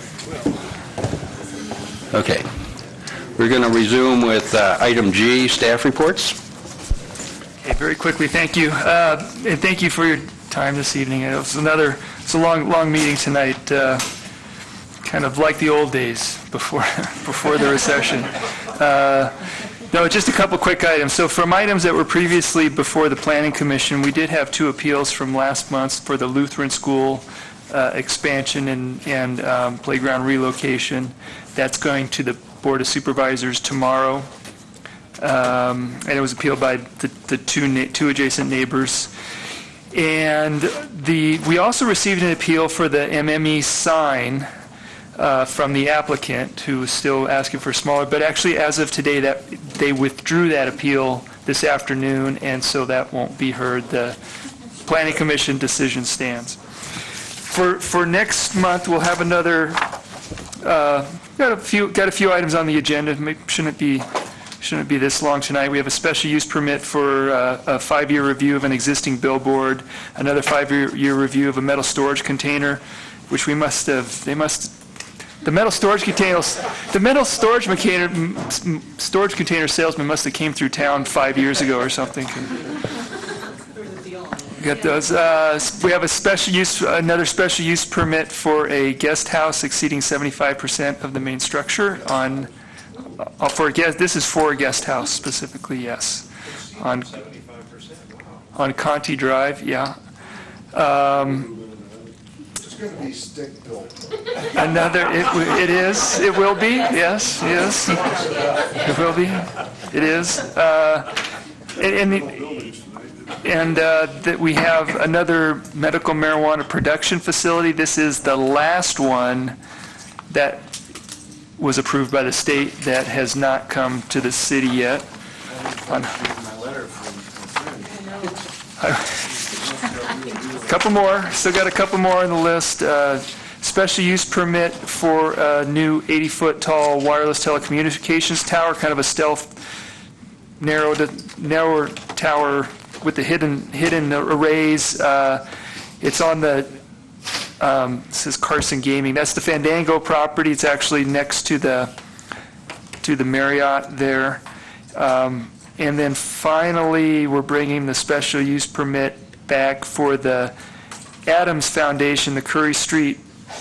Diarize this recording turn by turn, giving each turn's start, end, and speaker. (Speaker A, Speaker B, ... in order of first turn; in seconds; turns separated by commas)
Speaker A: 2.1-2.5, Speaker A: 3.4-6.4, Speaker B: 7.6-14.1, Speaker B: 15.0-19.4, Speaker B: 19.9-34.3, Speaker B: 35.2-39.1, Speaker B: 39.9-44.5, Speaker B: 45.2-54.2, Speaker B: 54.8-56.6, Speaker B: 57.4-59.9, Speaker B: 60.6-64.1, Speaker B: 64.6-74.8, Speaker B: 75.4-82.6, Speaker B: 84.6-92.5, Speaker B: 93.2-97.2, Speaker B: 98.5-100.0, Speaker B: 100.7-101.5, Speaker C: 101.1-104.0, Speaker B: 104.5-111.2, Speaker B: 111.7-112.6, Speaker C: 112.4-113.2, Speaker B: 113.4-119.6, Speaker B: 120.3-120.7, Speaker B: 121.6-125.0, Speaker C: 125.5-128.1, Speaker B: 125.9-126.1, Speaker B: 128.8-129.2, Speaker C: 129.2-131.0, Speaker B: 130.6-139.6, Speaker B: 140.6-145.4, Speaker B: 146.0-146.8, Speaker B: 147.6-151.9, Speaker B: 153.0-154.4, Speaker B: 154.9-160.5, Speaker B: 161.3-163.2